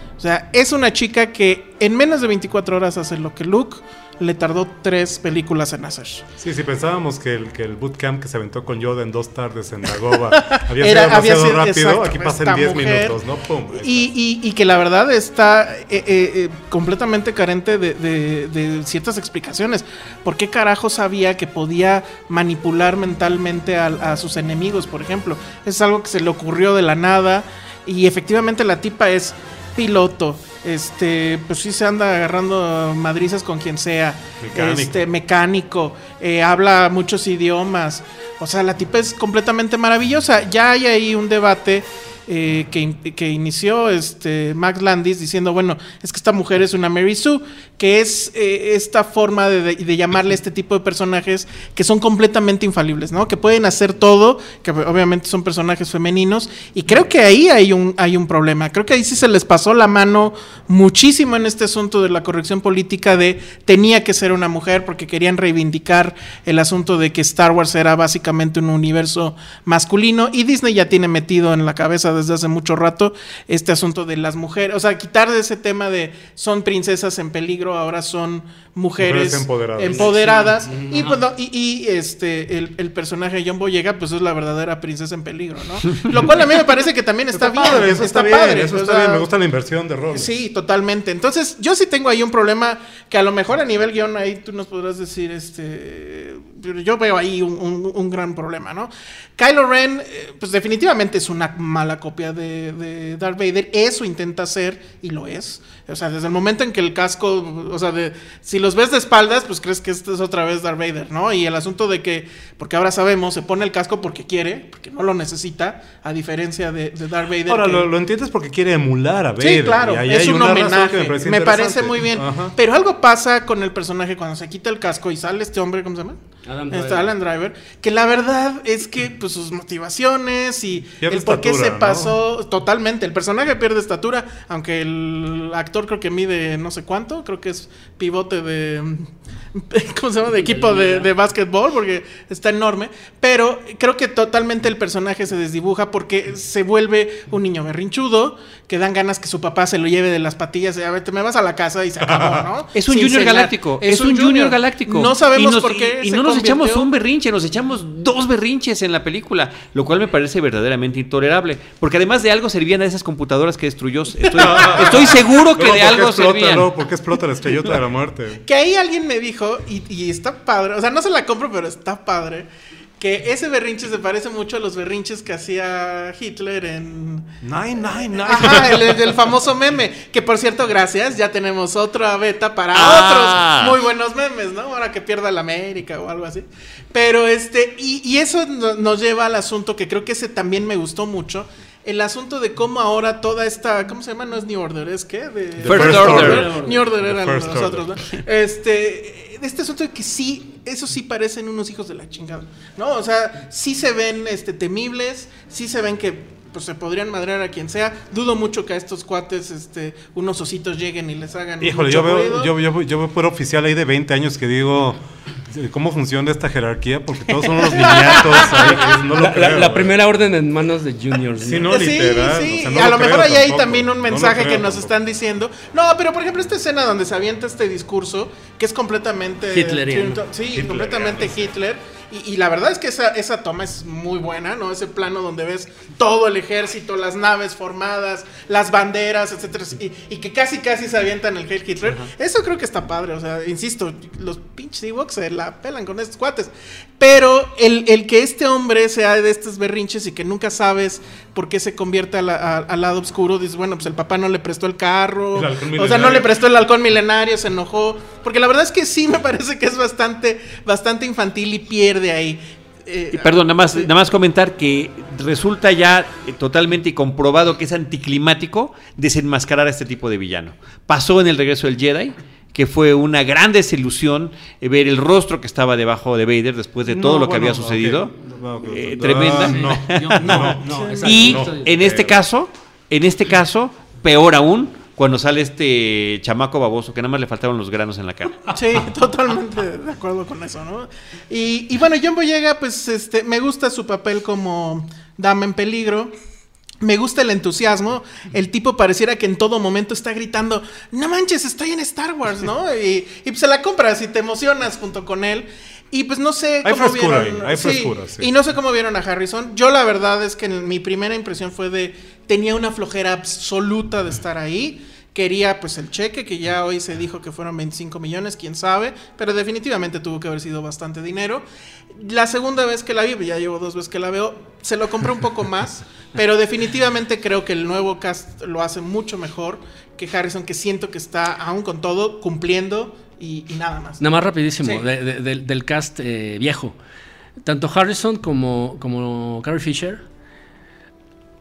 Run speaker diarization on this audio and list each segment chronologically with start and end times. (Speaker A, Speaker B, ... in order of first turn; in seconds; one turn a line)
Speaker A: 0.2-6.2
Speaker B: 6.4-14.1
Speaker A: 10.3-13.2
Speaker A: 13.8-89.2
Speaker B: 34.4-35.0
Speaker B: 79.0-80.2
Speaker C: 79.9-81.2
Speaker B: 87.3-90.3
Speaker A: 90.1-117.9
Speaker B: 117.5-122.6
Speaker A: 119.4-126.2
Speaker C: 126.5-127.1
Speaker A: 126.7-156.9
Speaker B: 131.0-132.2
Speaker C: 140.3-141.1
Speaker B: 152.1-152.4
Speaker D: 152.7-166.7
Speaker A: 164.2-165.4
Speaker B: 164.3-168.4
Speaker A: 168.4-172.5
Speaker A: 173.0-177.3
Speaker B: 177.4-178.9
Speaker A: 178.2-212.5
Speaker D: 182.7-183.8
Speaker B: 195.6-198.0
Speaker D: 195.6-196.5
Speaker C: 196.2-196.8
Speaker B: 211.6-219.9
Speaker A: 217.7-218.7
Speaker C: 218.4-221.7
Speaker B: 221.4-224.9
Speaker A: 221.6-263.9
Speaker C: 229.5-230.2
Speaker B: 230.5-231.5
Speaker B: 255.3-256.4
Speaker D: 263.1-278.1
Speaker B: 276.9-282.2
Speaker D: 278.6-288.5
Speaker C: 279.4-281.7
Speaker A: 280.8-281.1
Speaker A: 288.5-296.1
Speaker A: 296.8-334.0
Speaker B: 306.6-308.3
Speaker C: 334.0-336.8
Speaker C: 337.4-340.0